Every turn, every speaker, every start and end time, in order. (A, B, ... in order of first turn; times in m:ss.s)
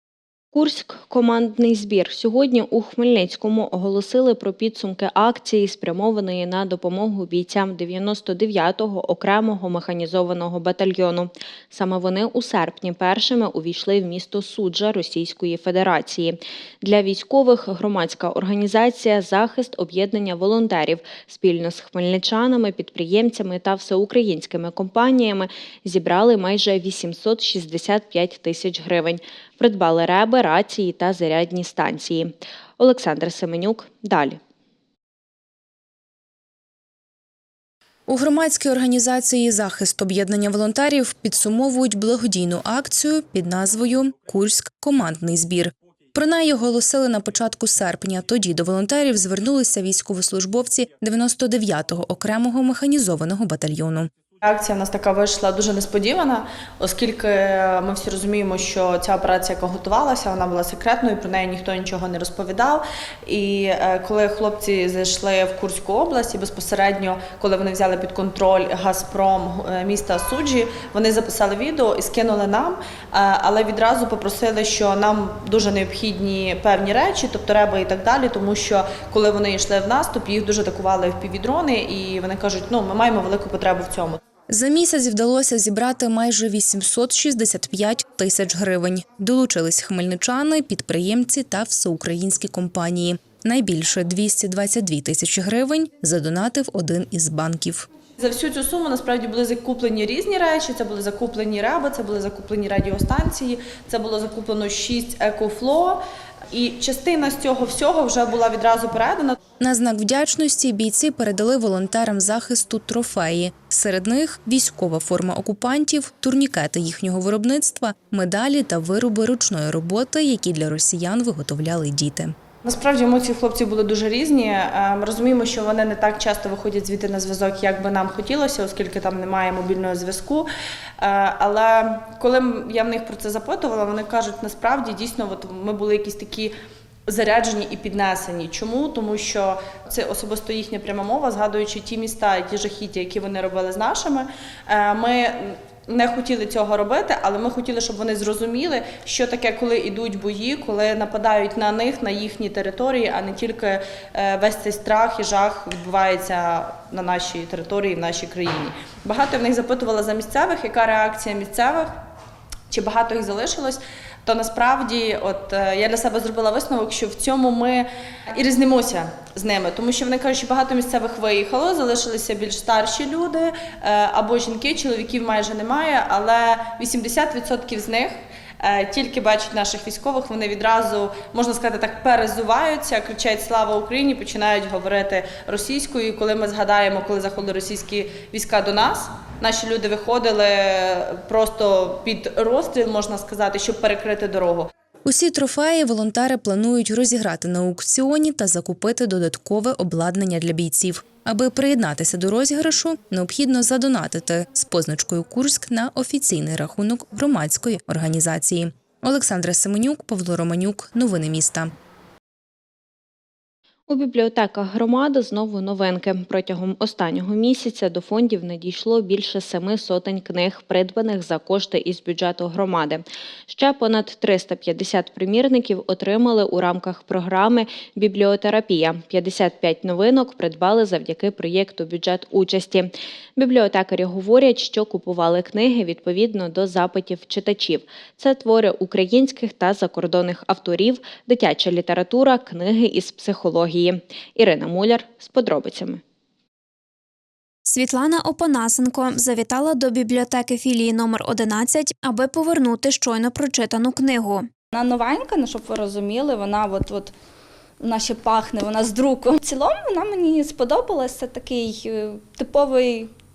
0:00.5-0:34.4 A
0:38.1-0:54.1 B
0:54.4-1:24.2 C
1:24.5-1:37.9 B
1:38.2-1:49.4 C
1:49.6-2:02.4 B
2:02.6-2:10.5 C
2:11.0-2:16.5 C
2:17.1-2:42.0 C
2:42.7-3:14.7 C
3:15.0-3:31.7 B
3:33.9-4:06.0 A
4:07.7-4:14.5 D
4:14.7-4:17.1 E
4:17.8-4:23.1 E